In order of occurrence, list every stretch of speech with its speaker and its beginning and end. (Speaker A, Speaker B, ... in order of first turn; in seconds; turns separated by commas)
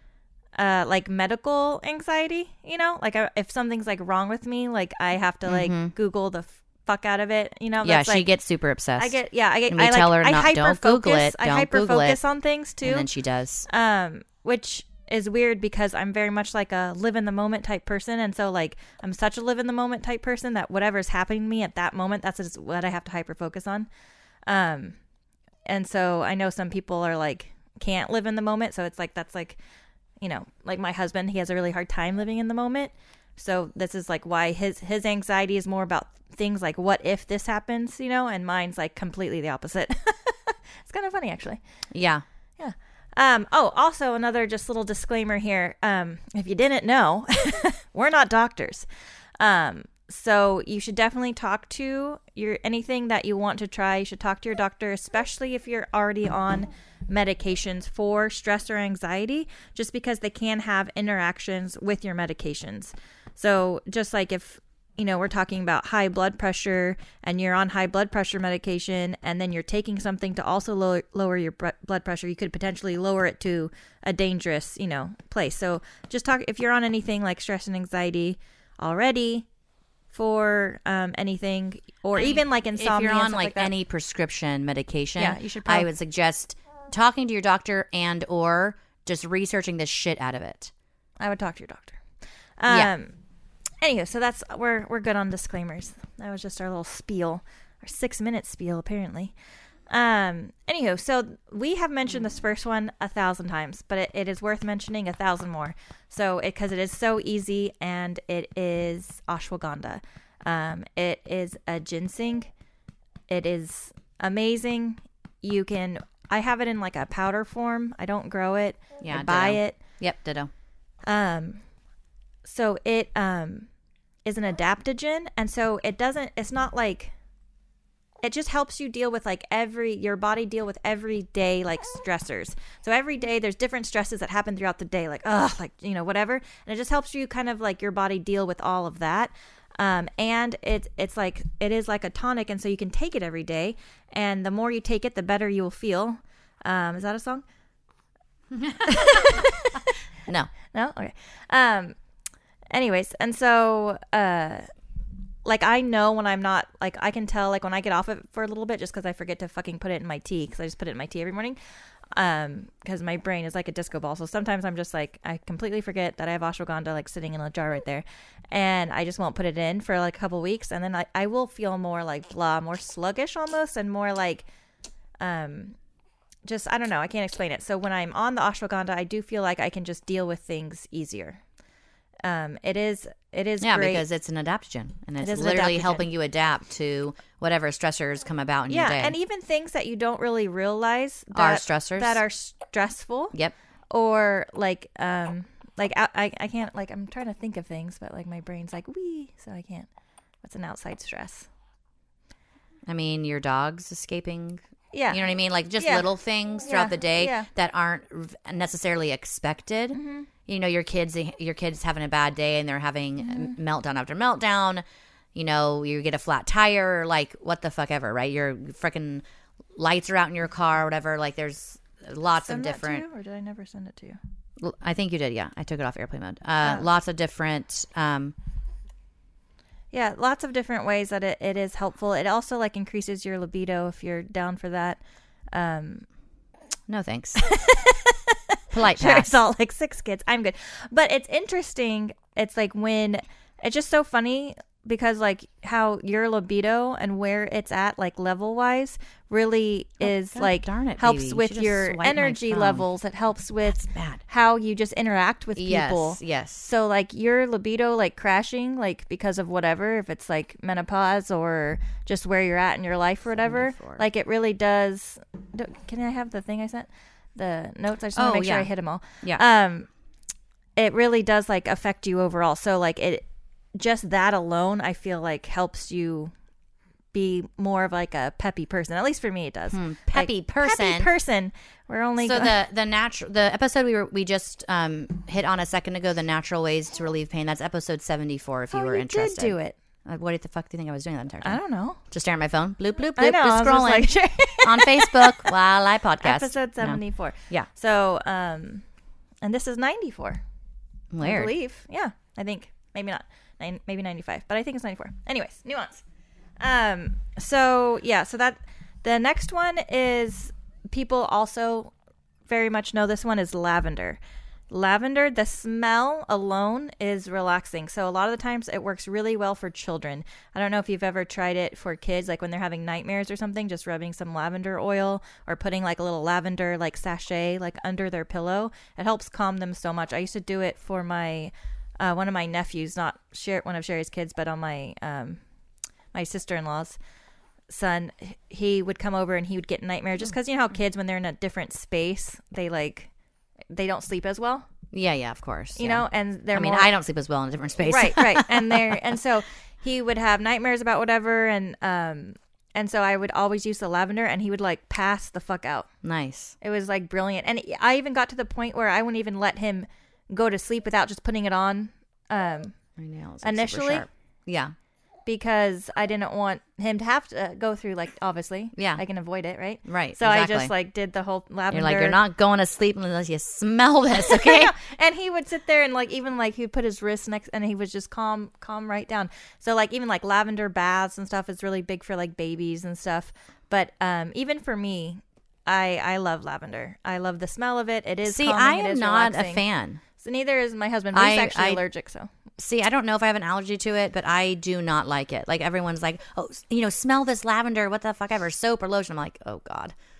Speaker A: 0.5-8.2, Speaker B: 5.4-5.9, Speaker B: 7.8-9.2, Speaker A: 9.0-13.1, Speaker B: 9.7-12.2, Speaker B: 12.8-13.7, Speaker A: 13.7-23.9, Speaker A: 24.5-25.0, Speaker A: 25.6-29.6, Speaker A: 30.2-41.6, Speaker B: 41.9-42.2, Speaker A: 42.6-48.9, Speaker A: 49.4-79.5, Speaker A: 80.1-83.7, Speaker B: 82.2-90.7, Speaker A: 85.2-85.9, Speaker A: 91.2-92.0, Speaker A: 92.6-93.2, Speaker A: 93.8-99.3, Speaker A: 99.9-112.5, Speaker A: 113.3-119.8, Speaker B: 119.0-120.5, Speaker A: 121.1-121.6, Speaker A: 122.4-123.7, Speaker A: 124.2-127.1, Speaker A: 128.2-147.4, Speaker B: 148.6-149.4, Speaker A: 148.8-149.9, Speaker A: 150.7-152.0, Speaker A: 152.7-154.7, Speaker A: 155.4-161.6, Speaker A: 162.1-174.5, Speaker A: 175.2-175.8, Speaker A: 176.4-181.4, Speaker A: 182.2-184.0, Speaker B: 183.6-189.1, Speaker A: 185.2-186.0, Speaker A: 188.7-193.3, Speaker B: 191.3-192.2, Speaker A: 193.9-199.9, Speaker A: 200.4-201.5, Speaker B: 202.9-214.8, Speaker A: 204.9-205.2, Speaker A: 205.8-206.1, Speaker A: 206.7-207.5, Speaker A: 209.9-210.3, Speaker B: 215.3-219.2, Speaker B: 219.7-223.0, Speaker A: 222.4-224.2, Speaker B: 224.6-228.3, Speaker A: 229.9-236.1, Speaker B: 236.9-237.4, Speaker A: 237.4-269.9, Speaker B: 238.7-239.3, Speaker B: 250.0-252.8, Speaker B: 253.8-254.2, Speaker B: 255.6-256.7, Speaker B: 263.5-264.0, Speaker B: 268.1-268.7, Speaker A: 270.8-276.3, Speaker A: 277.1-282.6, Speaker B: 279.7-281.1, Speaker B: 282.2-291.6, Speaker A: 288.7-289.8, Speaker A: 291.4-292.0, Speaker B: 292.1-297.7, Speaker A: 293.2-295.6, Speaker A: 296.2-298.9, Speaker A: 299.4-300.4, Speaker B: 301.1-301.5, Speaker A: 301.2-306.0, Speaker A: 306.6-311.9, Speaker A: 312.4-314.2, Speaker A: 314.7-335.4, Speaker A: 336.1-337.0, Speaker A: 337.7-343.1, Speaker A: 343.7-344.7, Speaker B: 344.9-349.1, Speaker A: 345.8-346.9, Speaker A: 347.8-355.9, Speaker B: 356.0-356.5, Speaker A: 356.6-362.8, Speaker B: 363.0-364.7, Speaker A: 363.4-364.1, Speaker A: 365.2-372.2, Speaker B: 368.8-369.0, Speaker B: 369.8-370.7, Speaker B: 371.7-374.7, Speaker A: 374.2-389.6, Speaker B: 388.2-390.0, Speaker A: 390.2-392.3, Speaker B: 391.1-391.8, Speaker B: 392.6-399.9